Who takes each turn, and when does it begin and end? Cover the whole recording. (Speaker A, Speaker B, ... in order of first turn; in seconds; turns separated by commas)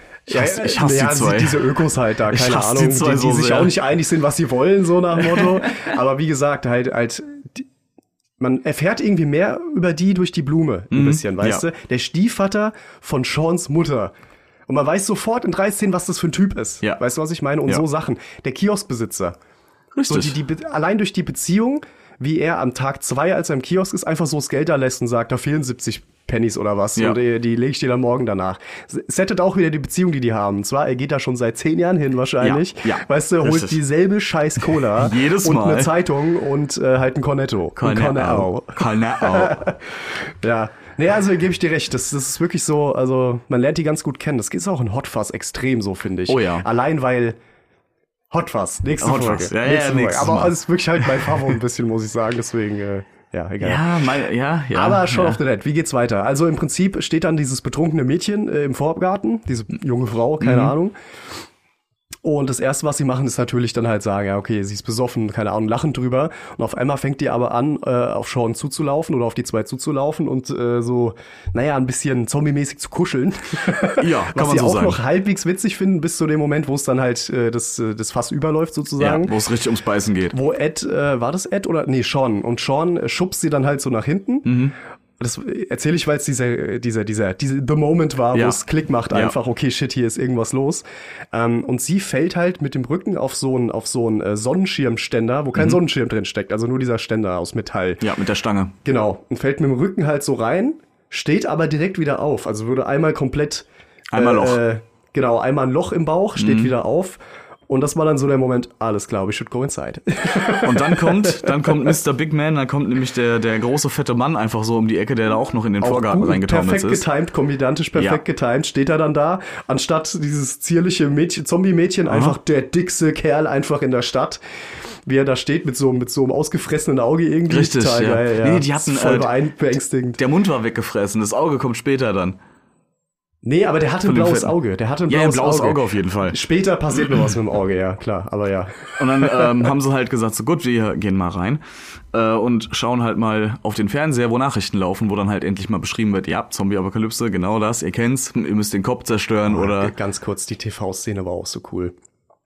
Speaker A: 0.3-7.7, Speaker B: 0.3-3.7, Speaker A: 8.4-14.1, Speaker B: 10.9-11.6, Speaker A: 14.7-19.4, Speaker B: 19.9-20.4, Speaker A: 20.1-47.4, Speaker B: 32.4-33.8, Speaker B: 34.6-35.9, Speaker B: 37.8-39.7, Speaker B: 46.3-46.6, Speaker A: 48.3-53.9, Speaker B: 49.0-51.2, Speaker B: 53.6-55.4, Speaker A: 54.7-60.9, Speaker B: 60.4-60.7, Speaker A: 62.2-79.3, Speaker B: 74.0-75.0, Speaker B: 79.0-80.3, Speaker A: 80.3-84.5, Speaker B: 84.4-84.7, Speaker A: 85.2-98.0, Speaker B: 88.3-88.6, Speaker B: 98.0-98.8, Speaker A: 98.8-112.0, Speaker B: 104.1-104.6, Speaker B: 106.3-106.7, Speaker B: 110.6-117.0, Speaker A: 115.8-124.4, Speaker B: 117.9-118.2, Speaker B: 122.1-122.4, Speaker A: 125.0-130.2, Speaker B: 127.5-129.3, Speaker B: 130.2-132.4, Speaker A: 133.4-139.5, Speaker B: 134.0-134.5, Speaker B: 135.1-136.4, Speaker B: 139.0-141.6, Speaker B: 142.1-149.9, Speaker A: 149.5-151.9